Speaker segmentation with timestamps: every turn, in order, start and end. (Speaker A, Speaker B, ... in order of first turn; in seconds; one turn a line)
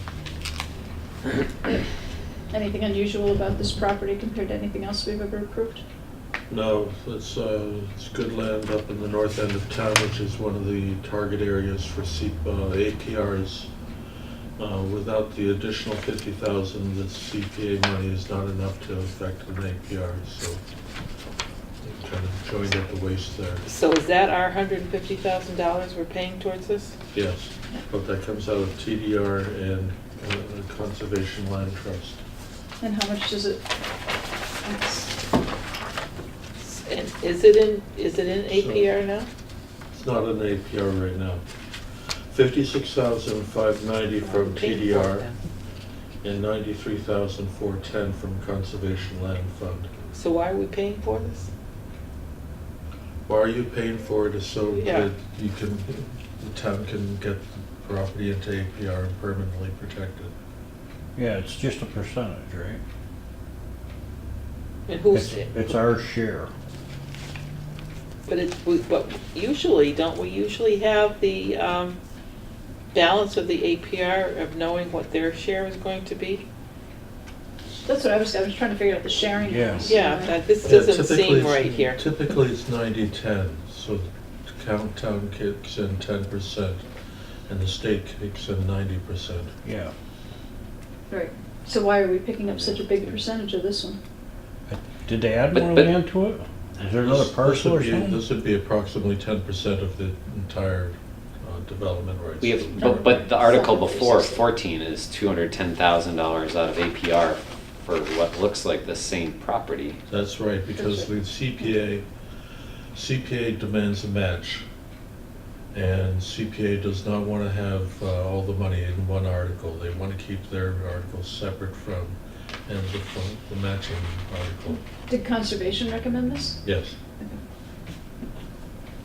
Speaker A: 2.5-5.8
Speaker B: 6.5-13.7
Speaker B: 14.6-20.6
Speaker B: 21.8-23.7
Speaker C: 23.7-27.0
Speaker B: 27.1-32.2
Speaker A: 32.8-33.6
Speaker A: 34.6-35.1
Speaker C: 36.6-39.3
Speaker B: 38.5-38.9
Speaker B: 39.9-41.4
Speaker B: 41.9-45.3
Speaker C: 44.2-45.3
Speaker B: 46.2-49.9
Speaker C: 50.1-51.5
Speaker B: 53.2-60.3
Speaker C: 54.8-55.1
Speaker D: 61.1-62.8
Speaker C: 64.9-65.8
Speaker D: 65.1-66.5
Speaker C: 68.3-72.0
Speaker C: 72.9-76.4
Speaker A: 77.8-80.4
Speaker D: 79.4-80.0
Speaker C: 79.9-82.0
Speaker B: 80.6-86.9
Speaker B: 87.5-89.5
Speaker D: 89.6-89.9
Speaker A: 91.1-94.0
Speaker D: 94.7-98.2
Speaker E: 95.5-95.9
Speaker B: 97.0-103.2
Speaker E: 102.4-110.0
Speaker A: 102.8-104.5
Speaker B: 110.1-112.0
Speaker A: 110.8-111.1
Speaker B: 112.9-114.6
Speaker B: 115.7-124.8
Speaker A: 125.1-126.6
Speaker B: 126.6-127.0